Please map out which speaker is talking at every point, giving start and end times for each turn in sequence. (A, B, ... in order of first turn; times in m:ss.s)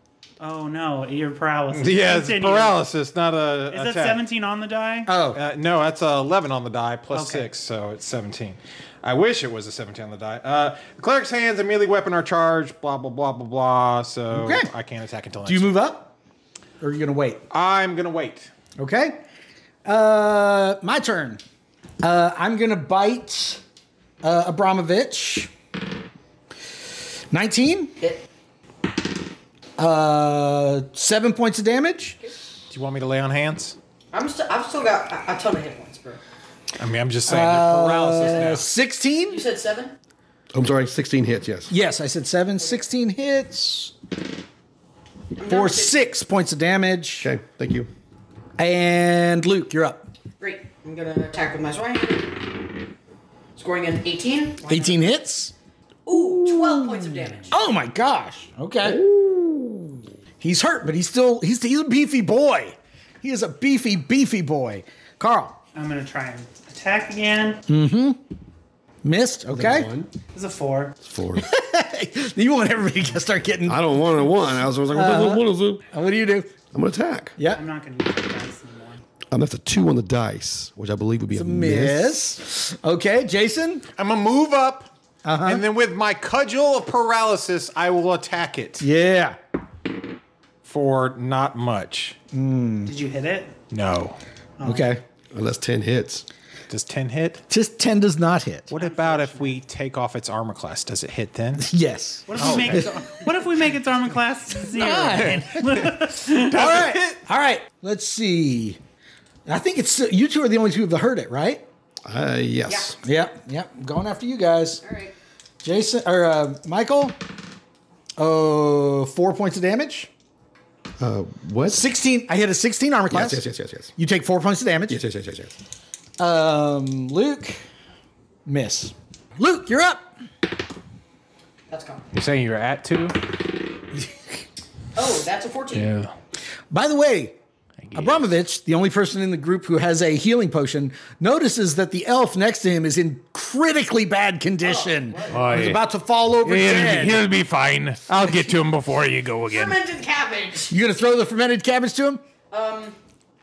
0:00.4-0:02.8 A
0:01.7-0:04.2 B
0:03.7-0:05.1 A
0:05.1-0:05.4 C
0:05.3-0:15.8 B
0:07.1-0:07.5 A
0:14.3-0:14.7 C
0:15.5-0:16.1 C
0:16.8-0:17.4 C
0:17.5-0:18.5 B
0:18.8-0:19.2 C
0:19.8-0:21.4 C
0:22.0-0:23.6 C
0:24.2-0:25.5 C
0:27.3-0:28.0 C
0:29.8-0:32.2 C
0:32.7-0:33.8 B
0:34.1-0:36.2 D
0:36.8-0:38.7 B
0:37.3-0:39.4 C
0:38.2-0:38.6 D
0:39.3-0:40.0 D
0:40.5-0:41.7 E
0:41.7-0:44.0 C
0:45.4-0:45.9 D
0:45.4-0:47.3 C
0:47.2-0:47.9 E
0:48.6-0:50.1 C
0:50.4-0:52.5 D
0:53.6-0:55.0 D
0:54.7-0:55.5 C
0:56.1-0:57.5 D
0:57.5-0:59.1 C
0:59.0-0:59.7 E
1:00.4-1:05.6 C
1:05.8-1:07.6 A
1:07.7-1:08.2 C
1:09.0-1:09.9 C
1:09.5-1:10.1 E
1:10.3-1:11.0 A
1:11.0-1:11.5 E
1:11.4-1:13.8 C
1:13.7-1:15.8 E
1:14.9-1:16.5 C
1:16.7-1:17.4 E
1:17.5-1:19.0 A
1:19.3-1:22.1 E
1:21.3-1:23.8 C
1:24.0-1:24.9 B
1:25.2-1:25.6 C
1:25.4-1:28.9 B
1:28.8-1:29.4 C
1:30.6-1:32.2 B
1:32.3-1:32.9 C
1:32.9-1:33.6 A
1:33.7-1:34.2 B
1:34.6-1:34.9 A
1:34.6-1:35.0 C
1:35.3-1:36.2 E
1:36.7-1:37.4 B
1:37.5-1:38.7 C
1:38.7-1:41.7 B
1:38.8-1:39.6 A
1:41.6-1:43.0 C
1:42.3-1:46.6 A
1:42.4-1:42.9 B
1:44.7-1:48.8 C
1:44.8-1:47.2 B
1:49.5-1:51.7 C
1:52.1-1:53.0 E
1:52.7-1:53.0 D
1:53.0-1:54.8 C
1:54.8-1:55.1 D
1:55.6-1:57.2 C
1:58.2-2:00.1 C
2:01.0-2:01.8 E
2:01.7-2:03.4 C
2:03.1-2:03.9 E
2:04.0-2:05.0 C
2:04.9-2:05.5 E
2:06.2-2:07.6 C
2:08.5-2:10.1 C
2:11.7-2:12.0 D
2:12.1-2:13.2 B
2:13.9-2:14.4 C
2:15.0-2:16.0 D
2:15.7-2:16.1 B
2:16.7-2:17.4 C
2:17.8-2:18.2 B
2:17.9-2:27.2 C
2:24.6-2:25.8 D
2:25.3-2:25.8 B
2:26.4-2:29.8 B
2:29.5-2:30.7 D
2:30.7-2:32.2 C
2:32.5-2:33.0 D